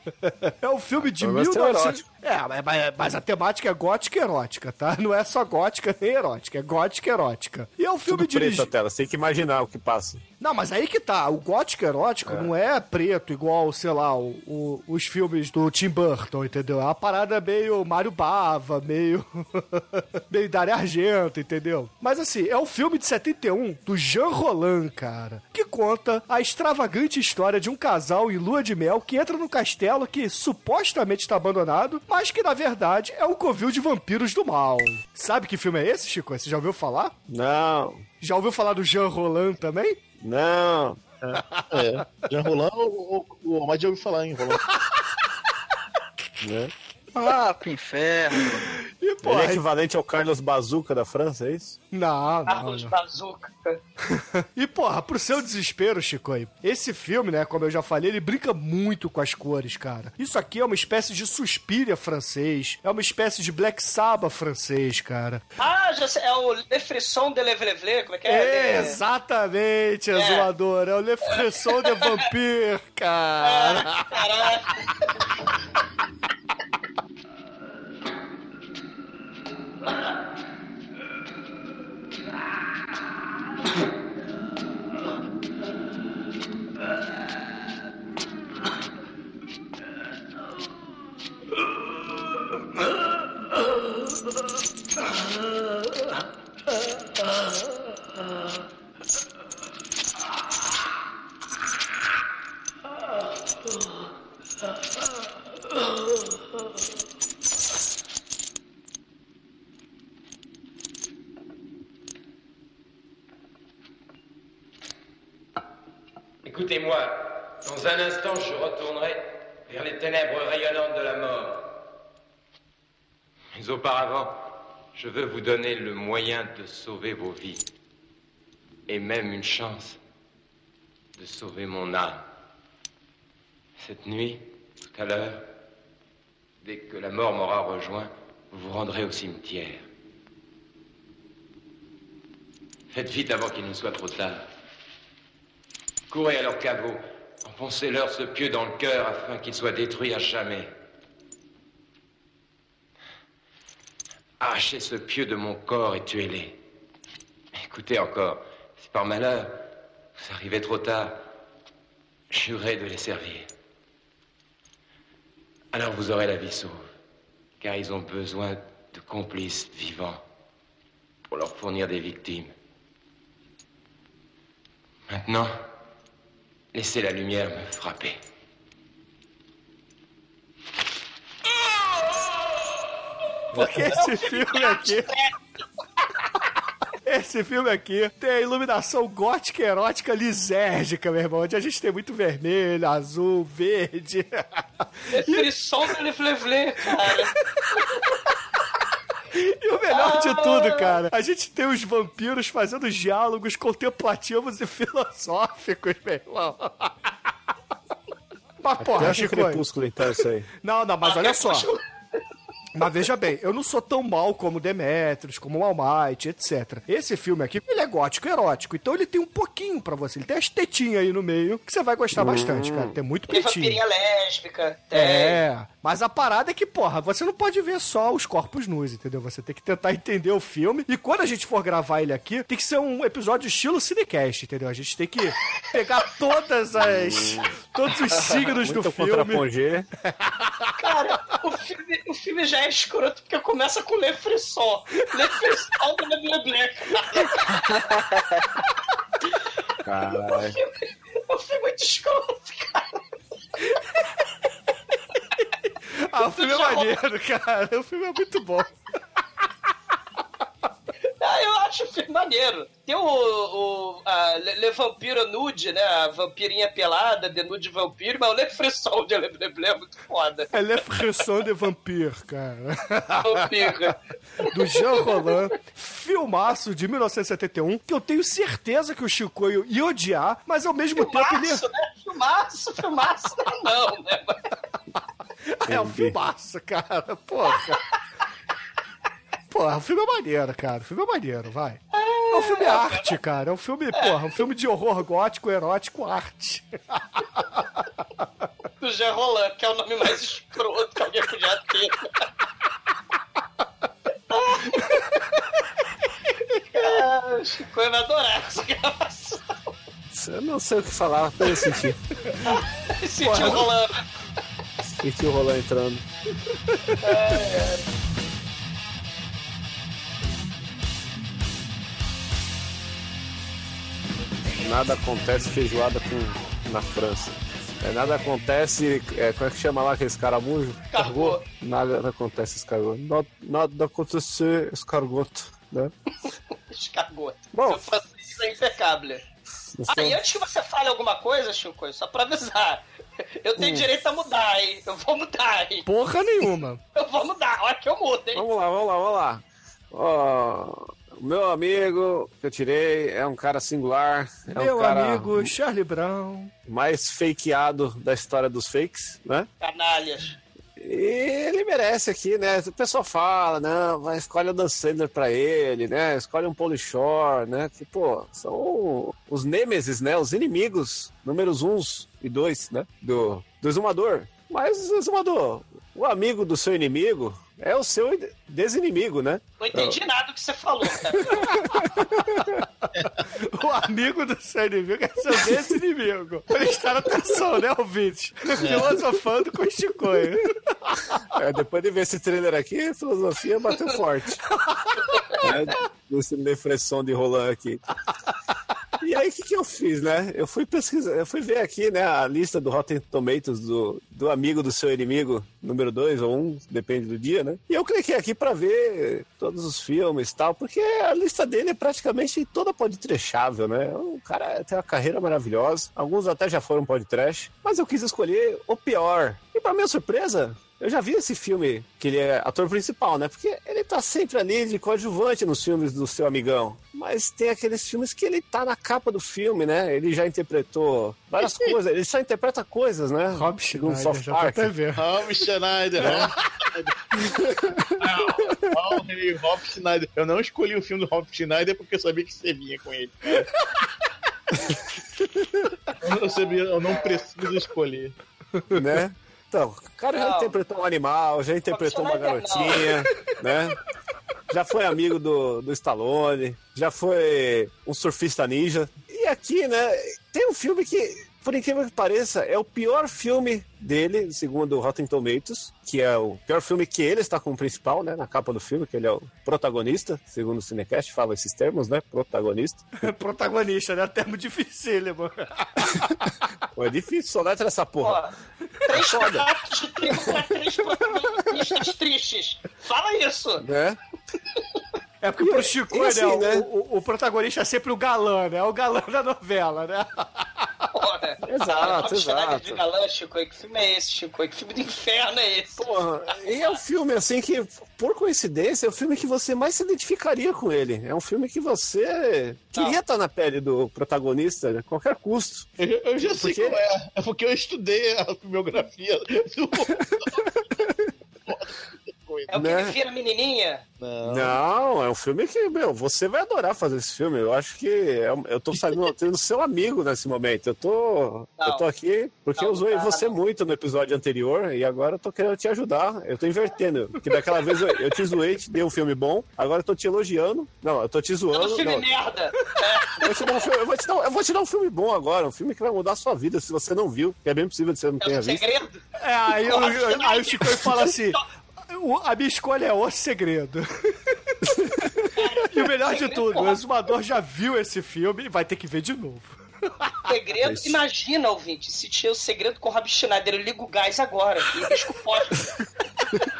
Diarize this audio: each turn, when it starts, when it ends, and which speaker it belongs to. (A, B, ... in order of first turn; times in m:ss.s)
0:00.2-0:08.7 A
0:01.0-0:02.0 B
0:08.1-0:10.2 B
0:10.4-0:37.1 A
0:12.2-0:12.5 B
0:37.3-0:38.0 B
0:38.2-0:40.0 A
0:40.2-0:41.0 B
0:41.2-0:44.6 C
0:46.4-0:46.7 B
0:47.1-0:48.7 D
0:48.7-0:49.6 A
0:49.2-0:51.8 B
0:51.9-0:52.9 A
0:52.5-0:53.8 E
0:54.1-1:05.4 A
1:05.6-1:09.0 E
1:08.3-1:14.2 A
1:10.1-1:10.5 E
1:11.8-1:12.2 E
1:13.4-1:14.8 E
1:56.4-2:01.7 F
2:03.5-2:07.6 F
2:08.9-2:10.0 F
2:11.2-2:12.2 F
2:13.8-2:15.5 F
2:16.6-2:19.8 F
2:22.9-2:24.5 F
2:26.1-2:30.7 F
2:34.4-2:36.6 F
2:37.5-2:41.2 F
2:42.3-2:43.5 F
2:45.7-2:46.9 F
2:47.6-2:50.2 F
2:51.3-2:52.5 F
2:55.1-2:55.6 F
2:56.7-2:58.2 F
3:03.5-3:05.1 A
3:03.5-3:05.3 E
3:07.0-3:15.5 A
3:15.1-3:17.3 E
3:16.9-3:17.6 A
3:17.8-3:18.1 E
3:19.3-3:27.1 A
3:19.9-3:21.0 E
3:28.6-3:29.6 A
3:28.8-3:30.5 B
3:30.6-3:31.7 A
3:31.0-3:31.8 E
3:32.7-3:43.8 A
3:42.1-3:43.0 B
3:43.3-3:45.4 E
3:44.9-3:59.4 A
3:56.7-3:57.5 B
3:58.2-3:59.9 B
4:00.2-4:00.7 A
4:00.8-4:07.4 E
4:07.6-4:08.4 D
4:09.8-4:10.6 B
4:10.2-4:10.8 E
4:11.3-4:13.0 E
4:16.0-4:18.7 A
4:16.2-4:17.0 E
4:21.2-4:30.5 E
4:30.5-4:33.9 A
4:33.2-4:35.4 E
4:34.5-4:41.6 A
4:41.0-4:44.5 E
4:45.5-4:47.8 A
4:45.6-4:46.2 B
4:49.5-4:51.8 A
4:51.9-4:53.2 E
4:52.3-4:57.6 A
4:58.8-5:02.1 E
5:04.3-5:05.0 E
5:06.7-5:09.7 E
5:10.1-5:12.0 B
5:12.4-5:14.0 E
5:13.2-5:13.7 A
5:14.8-5:16.0 B
5:17.0-5:17.8 E
5:24.6-5:35.9 B
5:30.9-5:31.4 E
5:36.7-5:39.2 E
5:37.5-5:37.8 B
5:39.8-5:40.2 B
5:39.9-5:42.8 E
5:43.4-5:45.8 E
5:43.6-5:43.9 B
5:45.8-5:46.8 A
5:46.9-5:48.4 E
5:48.3-5:55.5 B
5:54.5-5:56.5 A
5:56.6-5:59.5 B
5:59.6-6:00.4 E
6:00.8-6:20.0 B
6:19.6-6:21.5 E
6:21.1-6:22.4 B
6:22.2-6:22.6 A
6:23.4-6:30.6 A
6:28.6-6:29.0 C
6:31.3-6:34.4 B
6:34.5-6:35.0 A
6:35.1-6:35.4 E
6:35.4-6:37.8 B
6:39.0-7:14.7 B
7:13.3-7:15.0 A
7:14.9-7:16.9 C
7:16.0-7:16.3 B
7:17.4-7:17.7 B
7:18.0-7:23.5 C
7:26.0-7:28.1 C
7:28.7-7:33.8 B
7:30.1-7:30.6 E
7:31.7-7:32.9 E
7:34.5-7:53.1 B
7:53.0-7:56.1 A
7:56.7-7:58.2 B
7:58.0-7:58.3 E
7:58.8-8:03.6 E
7:58.9-7:59.5 B
8:03.6-8:04.0 B
8:05.2-8:10.9 A
8:05.4-8:06.7 B
8:10.9-8:16.7 E
8:11.4-8:12.8 B
8:15.8-8:25.7 B
8:25.8-8:30.5 C
8:26.2-8:26.8 B
8:31.5-8:32.5 C
8:32.5-8:33.8 E
8:32.5-8:33.0 B
8:34.0-8:34.6 C
8:34.2-8:52.1 B
8:42.6-8:43.3 E
8:51.5-8:53.5 E
8:53.2-8:58.6 B
8:58.2-8:59.0 E
8:59.2-9:01.4 A
8:59.6-9:01.4 E
9:01.9-9:04.4 A
9:05.3-9:06.8 E
9:05.7-9:10.1 A
9:10.2-9:15.7 E
9:10.6-9:11.0 B